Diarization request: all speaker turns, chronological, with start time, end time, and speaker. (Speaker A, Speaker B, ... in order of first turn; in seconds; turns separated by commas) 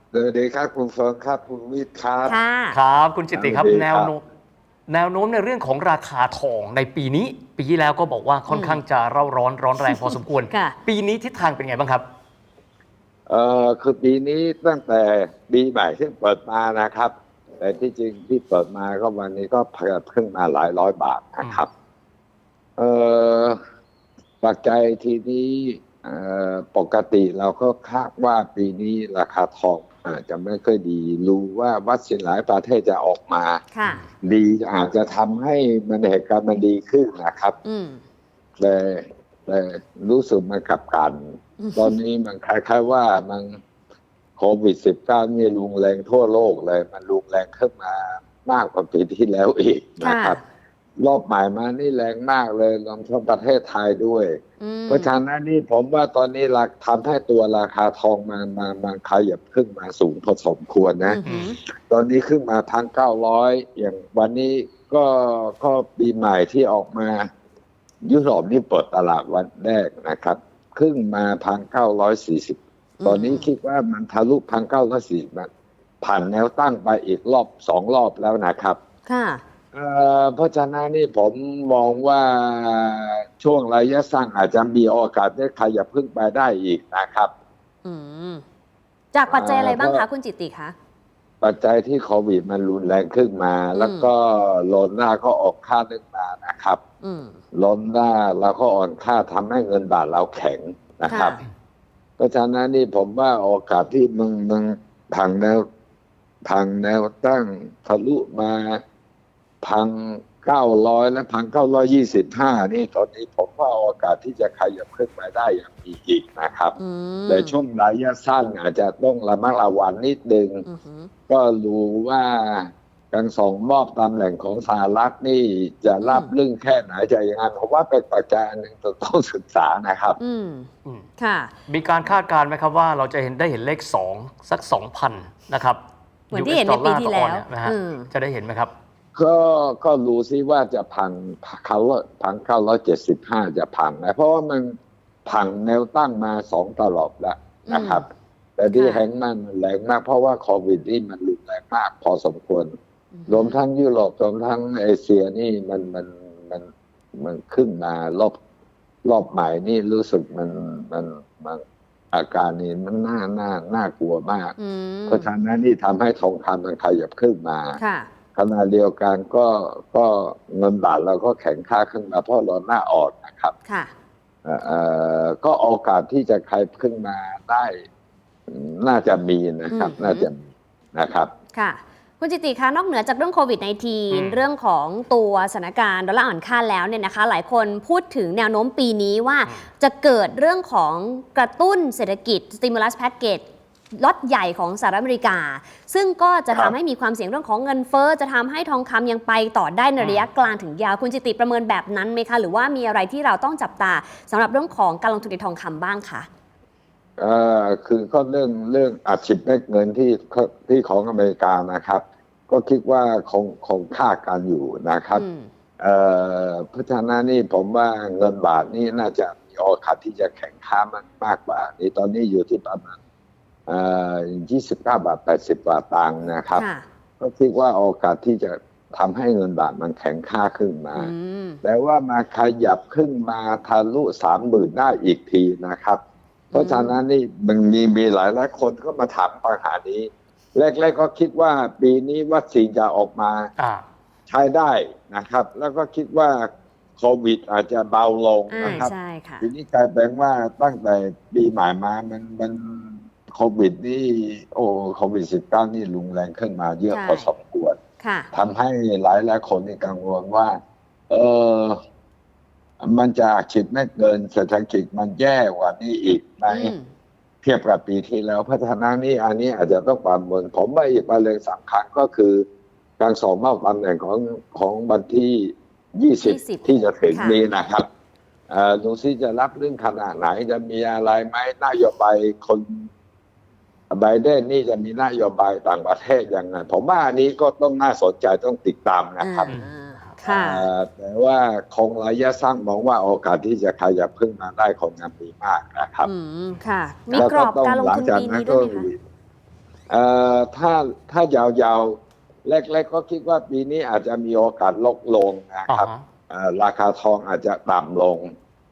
Speaker A: 0.1-2.4, Speaker B: 2.2-2.8, Speaker C: 2.7-4.2, Speaker A: 3.3-4.1, Speaker C: 4.9-12.1, Speaker B: 8.5-8.8, Speaker B: 9.8-10.8, Speaker A: 13.3-21.7, Speaker A: 22.8-23.6, Speaker A: 24.4-33.6, Speaker B: 33.7-34.0, Speaker A: 34.2-37.6, Speaker B: 37.6-38.0, Speaker A: 38.6-43.6, Speaker B: 41.6-42.0, Speaker A: 44.4-50.4, Speaker B: 50.0-50.4, Speaker A: 51.0-67.3, Speaker B: 54.6-55.1, Speaker B: 61.0-61.6, Speaker C: 61.2-61.5, Speaker A: 68.0-75.5, Speaker B: 73.0-73.5, Speaker A: 76.0-78.8, Speaker B: 79.0-79.4, Speaker A: 79.7-87.3, Speaker B: 87.8-88.4, Speaker B: 89.1-90.7, Speaker A: 89.3-90.0, Speaker A: 91.4-96.8, Speaker B: 93.7-94.1, Speaker B: 97.0-97.4, Speaker A: 97.5-101.4, Speaker B: 101.1-101.4, Speaker A: 102.2-105.6, Speaker A: 106.5-108.8, Speaker A: 109.6-116.8, Speaker B: 116.8-117.6, Speaker A: 117.3-120.6, Speaker B: 120.7-121.1, Speaker A: 121.3-130.2, Speaker B: 126.0-126.3, Speaker B: 130.2-131.5, Speaker C: 131.7-135.8, Speaker B: 136.3-138.1, Speaker C: 136.3-138.7, Speaker A: 139.1-144.7, Speaker A: 145.2-152.7, Speaker B: 147.7-148.0, Speaker B: 148.7-149.1, Speaker B: 153.1-153.6, Speaker A: 153.3-158.4, Speaker A: 159.0-164.5, Speaker B: 164.6-165.3, Speaker A: 165.1-167.8, Speaker B: 167.8-168.1, Speaker A: 168.3-173.5, Speaker B: 173.7-173.9, Speaker A: 174.4-177.8, Speaker A: 178.5-181.3, Speaker B: 179.7-180.3, Speaker B: 181.5-193.4, Speaker C: 184.1-184.4, Speaker B: 193.9-206.3, Speaker C: 200.0-200.2, Speaker A: 207.2-215.2, Speaker B: 215.1-215.5, Speaker A: 215.8-222.9, Speaker A: 223.7-226.6, Speaker B: 226.5-226.8, Speaker A: 227.2-236.0, Speaker B: 230.9-231.6, Speaker A: 236.5-243.5, Speaker B: 236.5-237.0, Speaker C: 243.6-243.8, Speaker A: 244.3-257.8, Speaker B: 248.5-249.4, Speaker B: 256.9-257.3, Speaker B: 258.0-258.3, Speaker A: 258.3-260.6, Speaker A: 261.1-261.8, Speaker A: 262.8-266.7, Speaker B: 266.5-266.9, Speaker A: 267.4-272.4, Speaker A: 273.0-277.9, Speaker B: 276.2-277.4, Speaker A: 278.5-282.9, Speaker A: 283.9-289.5, Speaker B: 289.2-290.7, Speaker C: 289.5-290.2, Speaker A: 290.3-296.1, Speaker B: 296.0-298.9, Speaker A: 297.1-299.0, Speaker A: 299.9-308.3, Speaker C: 305.7-306.0